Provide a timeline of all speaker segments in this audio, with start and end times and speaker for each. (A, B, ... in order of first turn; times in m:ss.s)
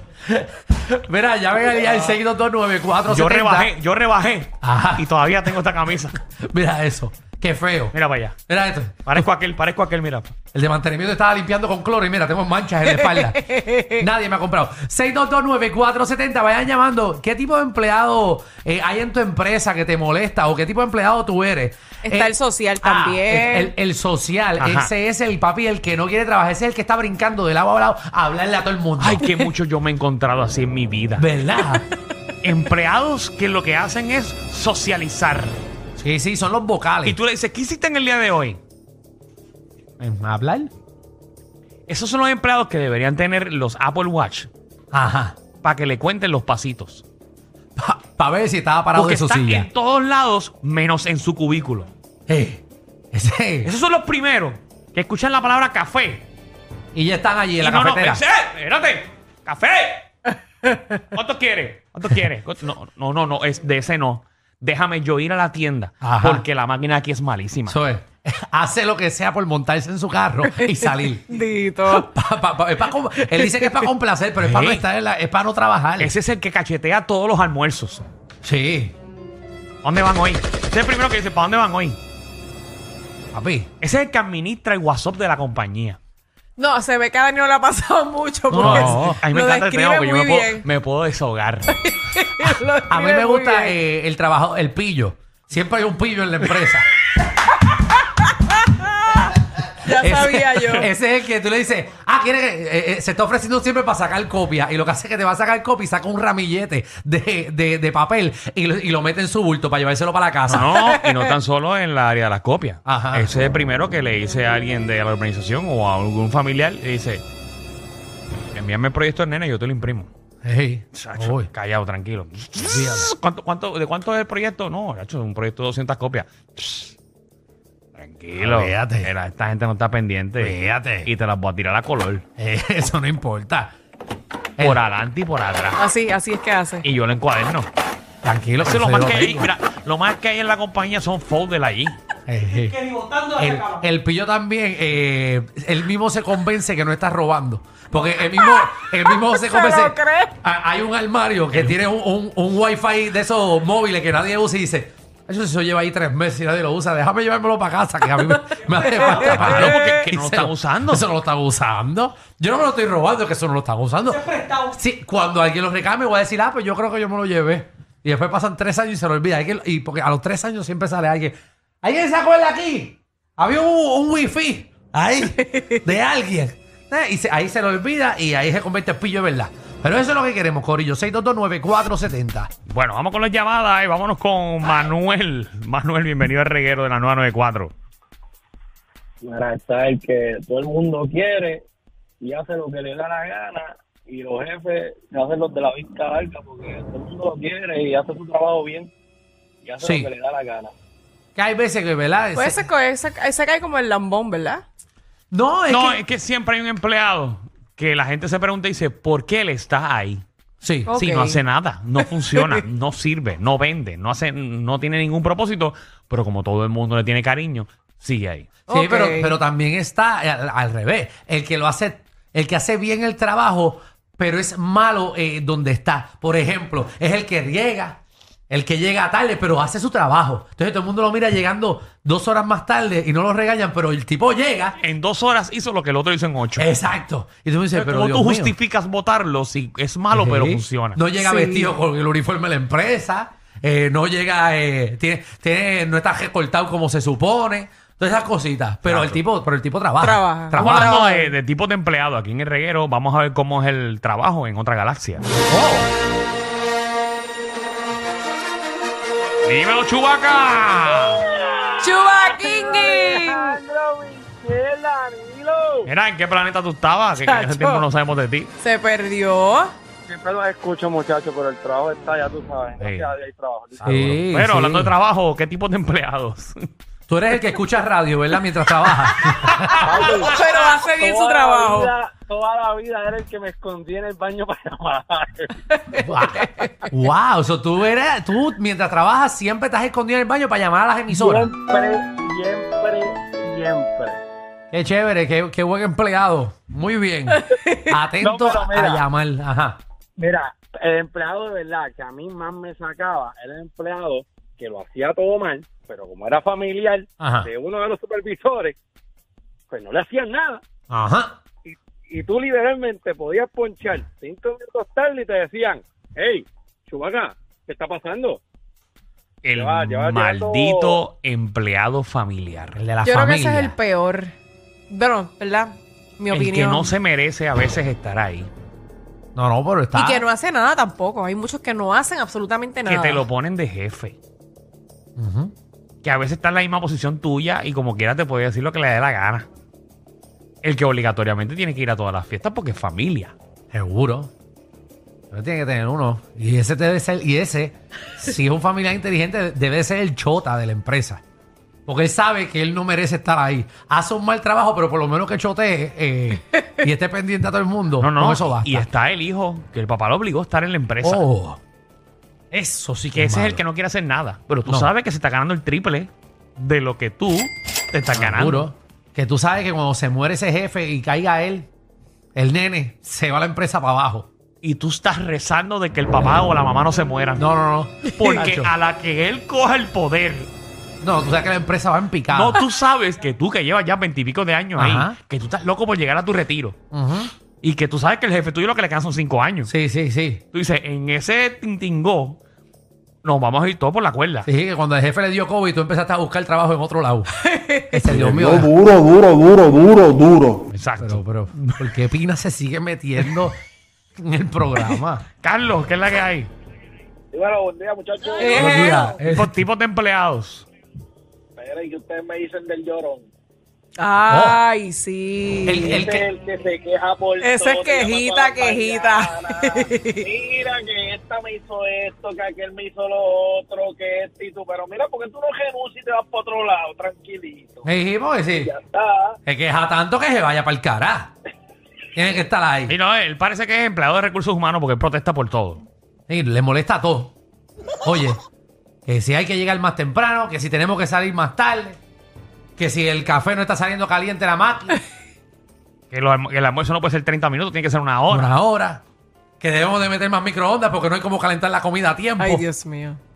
0:00.2-0:03.7 A
0:03.1-0:06.2 B
0:04.6-0:05.1 A
0:06.3-0:07.9 A
0:07.9-0:08.4 B
0:08.5-0:09.3 A
0:09.0-0:10.3 B
0:10.5-0:29.2 A
0:12.9-0:14.0 C
0:22.0-0:23.7 C
0:24.6-0:24.9 B
0:29.0-0:31.2 B
0:31.2-0:31.8 A
0:31.6-0:31.9 C
0:32.4-0:35.6 B
0:36.0-0:37.2 A
0:37.0-0:38.6 B
0:40.0-0:40.7 A
0:41.9-0:44.5 B
0:44.9-0:45.4 A
0:45.6-0:47.0 B
0:47.8-0:49.7 A
0:48.9-0:51.9 B
0:52.3-0:53.7 A
0:53.6-0:56.2 B
0:56.9-0:58.2 A
0:57.6-1:00.0 B
1:01.1-1:07.8 B
1:06.0-1:06.4 A
1:07.7-1:11.2 A
1:10.4-1:12.1 C
1:11.9-1:16.1 A
1:13.3-1:13.8 C
1:14.4-1:14.8 B
1:16.0-1:18.0 B
1:18.4-1:18.9 A
1:19.8-1:22.0 B
1:23.3-1:23.7 A
1:23.8-1:26.0 B
1:26.6-1:30.7 C
1:28.5-1:29.2 A
1:28.5-1:31.8 B
1:31.7-1:33.7 C
1:32.9-1:36.9 A
1:39.8-1:40.9 C
1:39.8-1:50.8 A
1:50.5-1:57.2 B
1:50.8-1:51.3 C
1:52.8-1:53.3 A
1:58.5-2:00.1 B
2:00.4-2:01.5 A
2:00.9-2:07.0 B
2:02.6-2:03.1 A
2:07.9-2:12.2 B
2:08.4-2:09.1 A
2:10.4-2:11.1 A
2:12.4-2:13.8 A
2:14.6-2:15.8 B
2:15.8-2:16.9 C
2:16.8-2:17.7 B
2:18.2-2:19.5 A
2:18.6-2:22.0 B
2:22.3-3:02.5 A
2:29.2-2:30.3 C
2:31.5-2:31.8 B
2:38.9-2:40.0 C
2:39.1-2:41.1 B
3:02.7-3:07.7 B
3:09.2-3:11.6 D
3:12.2-3:18.9 D
3:19.6-3:20.7 D
3:19.8-3:20.1 A
3:21.3-3:22.6 A
3:22.3-3:24.6 C
3:25.3-3:26.0 A
3:25.7-3:30.2 B
3:30.6-3:30.9 A
3:30.9-3:31.4 C
3:30.9-3:38.5 B
3:32.2-3:32.6 C
3:38.7-3:39.4 C
3:38.7-3:54.8 A
3:54.8-3:56.7 B
3:56.6-3:58.5 A
3:57.7-4:01.0 B
4:00.1-4:11.0 A
4:01.2-4:01.7 C
4:08.8-4:09.2 B
4:10.0-4:11.3 C
4:10.6-4:15.2 B
4:15.5-4:15.8 A
4:19.4-4:21.3 B
4:21.4-4:25.9 D
4:21.8-4:23.6 C
4:25.8-4:28.5 B
4:27.2-4:27.8 C
4:28.6-4:29.7 C
4:30.1-4:34.0 D
4:32.8-4:33.1 B
4:33.7-4:36.7 B
4:33.8-4:34.9 A
4:37.1-4:40.3 A
4:39.7-4:41.9 C
4:39.8-4:46.6 D
4:46.0-4:51.5 A
4:51.1-4:54.2 D
4:54.7-4:59.8 A
4:57.7-4:58.0 C
4:58.2-4:59.0 D
5:00.2-5:08.8 D
5:07.2-5:07.5 A
5:09.7-5:10.6 D
5:10.9-5:11.4 A
5:11.6-5:18.4 D
5:19.4-5:22.8 B
5:19.5-5:21.0 D
5:22.8-5:23.8 A
5:23.0-5:24.3 C
5:24.9-5:27.0 C
5:26.3-5:28.5 B
5:29.3-5:30.2 A
5:29.9-5:33.3 C
5:32.8-5:34.2 B
5:35.2-5:35.5 A
5:36.0-5:39.5 B
5:40.6-5:43.3 B
5:43.7-5:44.3 A
5:45.3-5:51.2 A
5:51.8-5:58.9 A
5:58.0-6:01.2 B
6:01.0-6:01.6 A
6:02.5-6:03.6 A
6:03.1-6:08.7 B
6:08.1-6:11.7 A
6:12.3-6:14.3 A
6:14.6-6:17.4 B
6:17.4-6:18.7 A
6:18.1-6:20.5 B
6:21.0-6:22.6 A
6:22.3-6:26.8 B
6:24.8-6:25.2 A
6:26.9-6:27.3 A
6:27.6-6:29.7 B
6:29.6-6:30.4 A
6:30.5-6:32.4 B
6:33.2-6:34.5 B
6:34.4-6:37.3 A
6:37.4-6:38.1 C
6:37.9-6:38.9 A
6:38.4-6:40.6 E
6:40.7-6:41.9 B
6:41.0-6:43.6 A
6:44.2-6:45.2 A
6:45.4-6:46.5 B
6:47.3-6:49.0 D
6:48.4-6:49.2 C
6:48.5-6:49.6 A
6:48.9-6:50.6 B
6:51.6-6:53.3 D
6:54.0-6:56.0 C
6:54.3-6:54.6 A
6:55.7-6:56.3 A
6:55.8-7:07.9 D
6:57.4-7:00.3 C
7:07.8-7:08.7 A
7:08.5-7:09.4 D
7:09.4-7:11.3 A
7:12.1-7:13.0 A
7:12.9-7:15.8 B
7:16.3-7:17.3 A
7:18.0-7:18.4 A
7:19.0-7:22.0 A
7:22.8-7:25.0 A
7:26.1-7:28.5 B
7:28.3-7:29.0 A
7:29.6-7:32.6 A
7:32.4-7:33.2 C